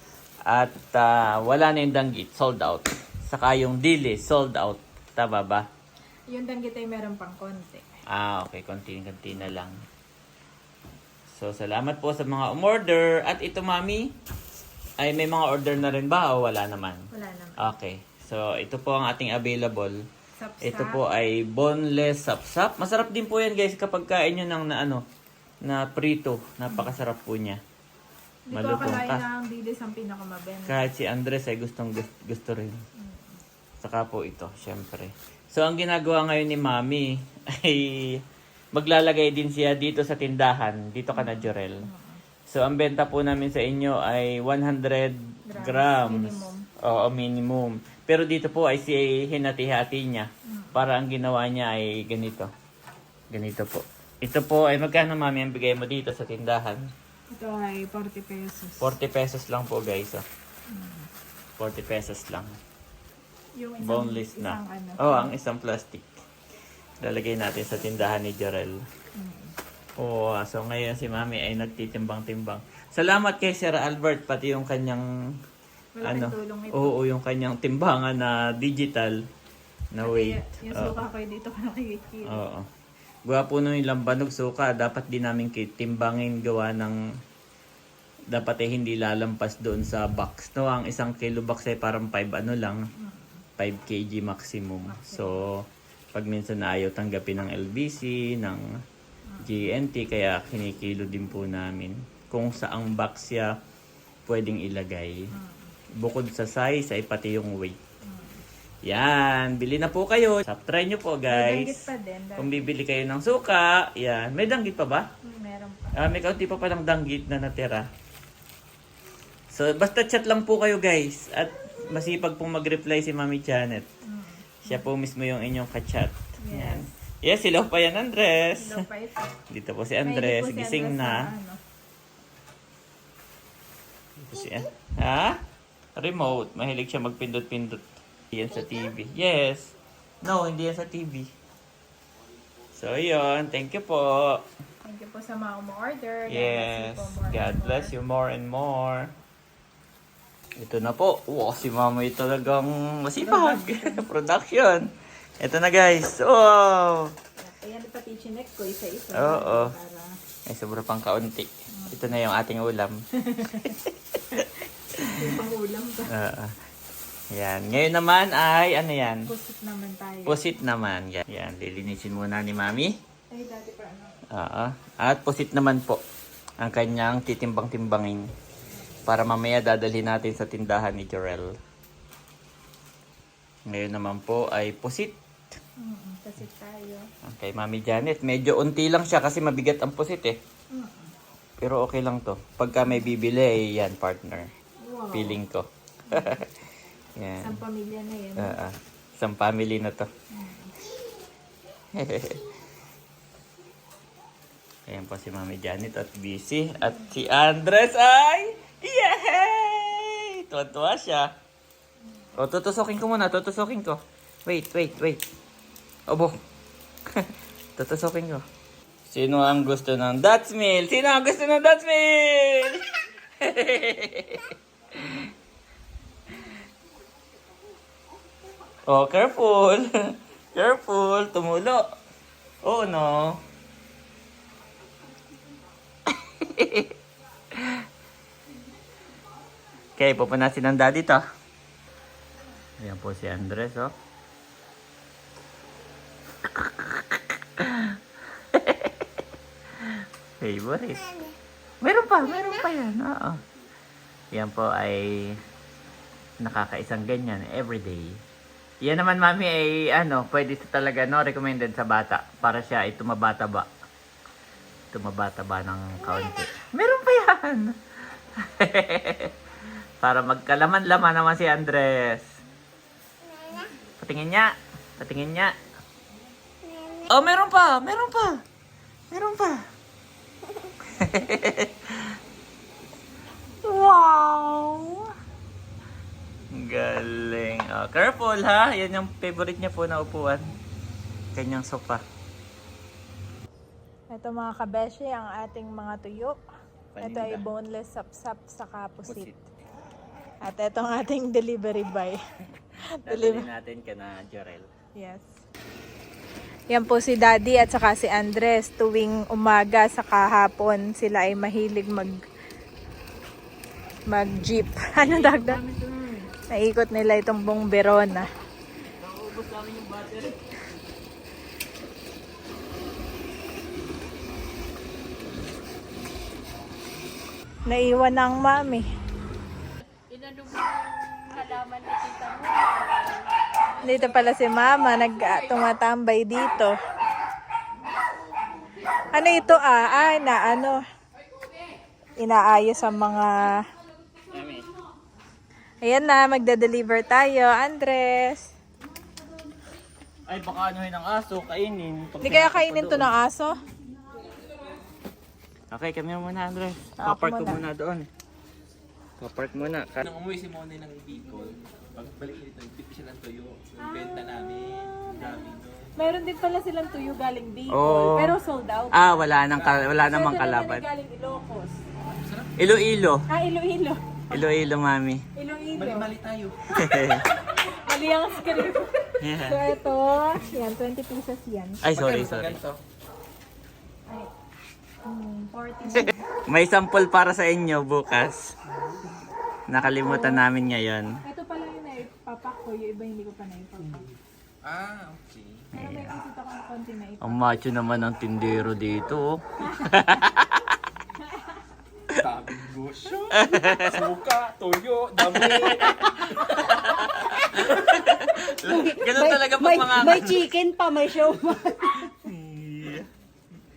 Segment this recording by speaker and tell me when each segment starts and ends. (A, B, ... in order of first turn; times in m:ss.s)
0:00.5-0:05.6 A
0:06.3-0:07.9 B
0:08.1-0:09.8 A
0:11.3-0:14.1 A
0:15.0-0:17.1 A
0:17.1-0:17.7 B
0:17.6-0:20.0 A
0:20.4-0:21.0 B
0:20.6-0:25.0 A
0:25.6-0:27.6 A
0:28.5-0:30.9 B
0:28.5-0:29.2 A
0:30.7-0:32.8 A
0:33.0-0:33.4 B
0:33.8-0:38.2 A
0:38.7-0:41.8 A
0:41.1-0:42.2 B
0:42.5-0:52.5 A
0:45.5-0:46.7 B
0:50.5-0:50.8 B
0:53.3-0:56.9 A
0:57.3-0:58.9 B
0:58.8-1:00.2 A
1:00.7-1:01.1 B
1:01.6-1:02.6 A
1:03.6-1:05.3 B
1:03.8-1:06.2 A
1:07.0-1:08.8 A
1:09.2-1:09.6 B
1:10.0-1:15.1 A
1:16.0-1:17.0 B
1:16.0-1:19.2 A
1:19.9-1:21.0 A
1:20.0-1:22.4 B
1:22.3-1:22.7 A
1:23.3-1:27.0 A
1:28.3-1:32.8 A
1:33.0-1:33.4 B
1:33.6-1:35.6 A
1:34.9-1:35.5 B
1:36.1-1:38.7 A
1:39.3-1:39.5 B
1:39.4-1:43.6 A
1:44.3-1:45.3 A
1:45.3-1:45.7 B
1:46.0-1:47.8 A
1:48.0-1:48.4 B
1:48.9-1:55.1 A
1:51.3-1:52.7 B
1:55.2-1:56.0 B
1:56.0-1:57.9 A
1:59.5-2:03.9 A
2:04.0-2:04.9 B
2:04.6-2:08.8 A
2:06.4-2:06.9 B
2:08.5-2:09.3 B
2:09.5-2:11.3 A
2:10.0-2:11.6 B
2:14.2-2:15.4 A
2:16.0-2:21.3 A
2:22.8-2:24.5 A
2:24.8-2:27.9 B
2:26.3-2:29.1 A
2:30.6-2:34.9 A
2:33.2-2:34.1 B
2:35.4-2:37.1 A
2:37.4-2:40.1 B
2:39.1-2:39.7 A
2:40.5-2:43.0 A
2:41.7-2:42.1 B
2:43.2-2:43.8 B
2:45.0-2:46.1 B
2:45.0-2:45.3 A
2:46.1-2:46.5 A
2:47.3-2:49.3 A
2:49.3-2:50.4 B
2:50.3-2:52.9 A
2:53.3-2:54.2 B
2:54.3-2:56.0 A
2:56.6-2:58.3 A
2:59.1-3:01.5 A
3:03.7-3:05.2 A
3:05.8-3:07.1 B
3:07.2-3:10.4 A
3:10.7-3:11.1 B
3:11.6-3:14.5 A
3:14.8-3:15.4 B
3:15.1-3:16.6 A
3:16.1-3:16.4 B
3:17.2-3:17.6 A
3:17.4-3:18.6 B
3:18.4-3:20.1 A
3:20.3-3:20.7 B
3:21.9-3:22.4 A
3:24.9-3:31.3 A
3:32.4-3:35.2 A
3:36.1-3:36.4 A
3:37.1-3:38.4 A
3:39.1-3:42.8 A
3:43.4-3:45.3 A
3:48.9-3:51.8 A
3:52.6-3:53.4 A
3:56.1-3:56.9 A
3:57.6-3:57.8 A
4:00.0-4:01.2 A
4:02.8-4:03.9 A
4:06.4-4:08.0 A
4:08.5-4:09.1 A
4:09.8-4:11.1 A
4:11.8-4:13.4 A
4:14.3-4:15.4 A
4:16.4-4:18.2 A
4:18.8-4:23.7 A
4:24.9-4:27.8 A
4:28.4-4:29.3 A
4:30.0-4:32.3 A
4:34.0-4:35.6 A
4:37.1-4:38.4 A
4:39.1-4:39.7 A
4:40.9-4:42.1 A
4:43.6-4:45.1 A
4:46.5-4:50.5 A
4:51.4-4:52.0 A
4:54.1-4:56.4 B
4:56.9-4:57.4 A
4:57.0-4:59.3 B
4:59.1-4:59.4 A
5:00.4-5:02.2 B
5:03.0-5:03.5 B
5:03.0-5:04.7 A
5:05.0-5:05.4 B
5:06.7-5:12.2 B
5:14.1-5:15.6 B
5:15.0-5:16.2 A
5:16.5-5:18.3 B
5:19.0-5:20.4 A
5:27.7-5:28.9 B
5:30.1-5:33.3 C
5:33.8-5:36.8 B
5:39.1-5:40.8 B
5:42.2-5:43.6 B
5:44.3-5:44.7 A
5:45.8-5:48.5 B
5:50.3-5:53.1 A
5:52.2-5:53.6 B
5:55.7-5:58.1 A
5:57.0-5:57.6 B
5:59.2-6:00.0 A
6:00.0-6:06.1 D
6:03.9-6:04.2 B
6:05.0-6:09.3 B
6:07.7-6:08.4 A
6:08.9-6:10.8 A
6:09.6-6:09.9 D
6:10.0-6:11.8 B
6:12.0-6:12.8 D
6:12.6-6:13.3 A
6:13.3-6:14.4 B
6:14.3-6:15.2 A
6:15.4-6:16.1 B
6:15.7-6:17.0 D
6:16.8-6:17.2 A
6:17.7-6:21.8 B
6:19.2-6:19.6 A
6:21.8-6:22.6 A
6:21.9-6:22.8 D
6:25.0-6:26.2 B
6:25.9-6:28.5 A
6:29.7-6:31.1 A
6:29.8-6:30.4 B
6:31.2-6:34.0 B
6:34.6-6:35.7 D
6:35.7-6:37.4 B
6:35.8-6:36.1 A
6:37.2-6:40.7 A
6:39.6-6:40.2 B
6:41.3-6:41.6 B
6:42.1-6:46.6 D
6:43.4-6:43.9 A
6:45.3-6:50.5 A
6:48.6-6:52.1 E
6:52.2-6:53.1 A